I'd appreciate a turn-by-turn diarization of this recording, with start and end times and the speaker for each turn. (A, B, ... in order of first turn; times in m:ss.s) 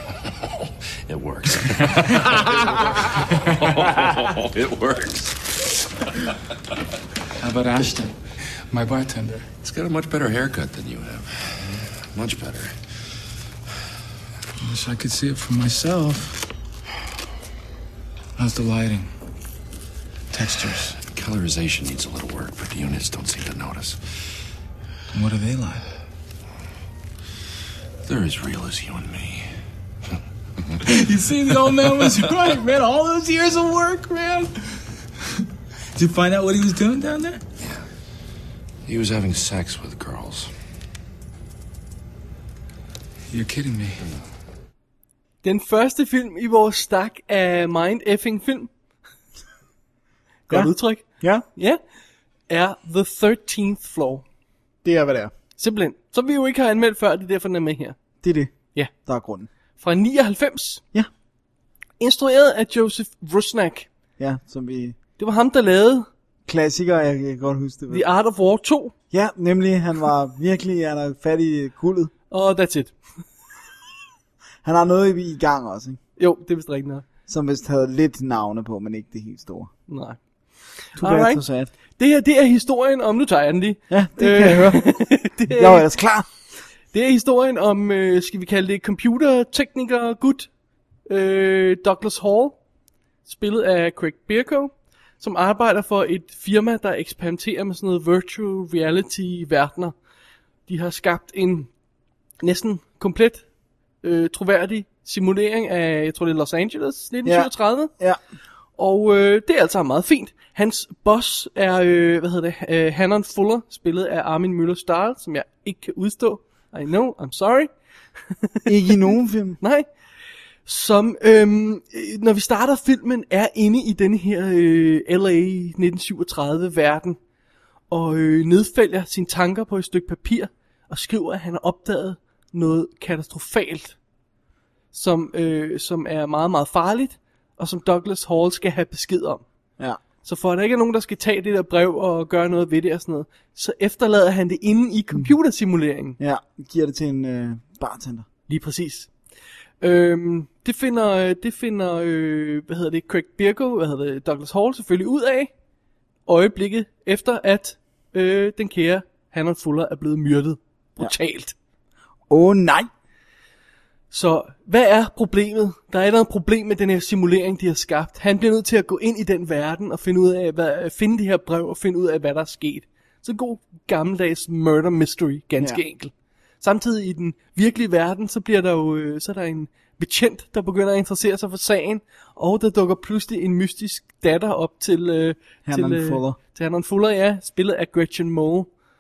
0:01.1-0:05.7 A
0:07.4-0:08.1 B
0:08.7-0:09.5 B
0:09.6-0:12.8 A
0:14.6-0:16.5 B
0:18.4-0:19.1 B
0:20.3-0:21.0 B
0:21.0-0:24.2 A
0:25.1-0:25.9 B
0:28.0-0:29.5 A
0:30.8-0:34.6 B
0:36.0-0:37.4 B
0:37.6-0:37.8 A
0:38.8-0:40.5 A
0:43.3-0:44.0 B
0:45.4-0:48.7 C
0:50.5-0:51.8 C
0:50.5-0:51.4 D
0:52.5-0:54.2 C
0:54.8-0:55.3 D
0:55.6-0:58.0 C
0:58.2-0:59.5 D
0:59.8-1:00.8 C
1:02.0-1:03.9 C
1:04.2-1:05.0 D
1:05.2-1:06.1 C
1:06.4-1:08.0 D
1:07.9-1:08.9 C
1:09.1-1:12.1 D
1:12.3-1:13.0 C
1:14.6-1:16.0 D
1:16.2-1:17.0 C
1:17.3-1:19.7 D
1:19.9-1:25.9 C
1:21.0-1:21.7 D
1:23.9-1:26.3 D
1:26.9-1:30.5 C
1:31.0-1:32.6 C
1:33.3-1:40.0 C
1:40.7-1:41.7 C
1:42.4-1:43.5 C
1:44.0-1:47.9 C
1:47.2-1:48.2 D
1:48.8-1:57.7 C
1:58.4-1:58.9 C
1:58.7-1:59.6 D
1:59.6-1:59.9 C
2:00.7-2:07.2 C
2:07.9-2:14.0 C
2:14.9-2:19.4 C
2:20.2-2:26.2 C
2:26.2-2:28.3 D
2:28.5-2:29.1 C
2:29.8-2:35.5 C
2:36.3-2:41.6 C
2:42.3-2:42.9 D
2:44.1-3:08.7 C
3:05.7-3:06.4 D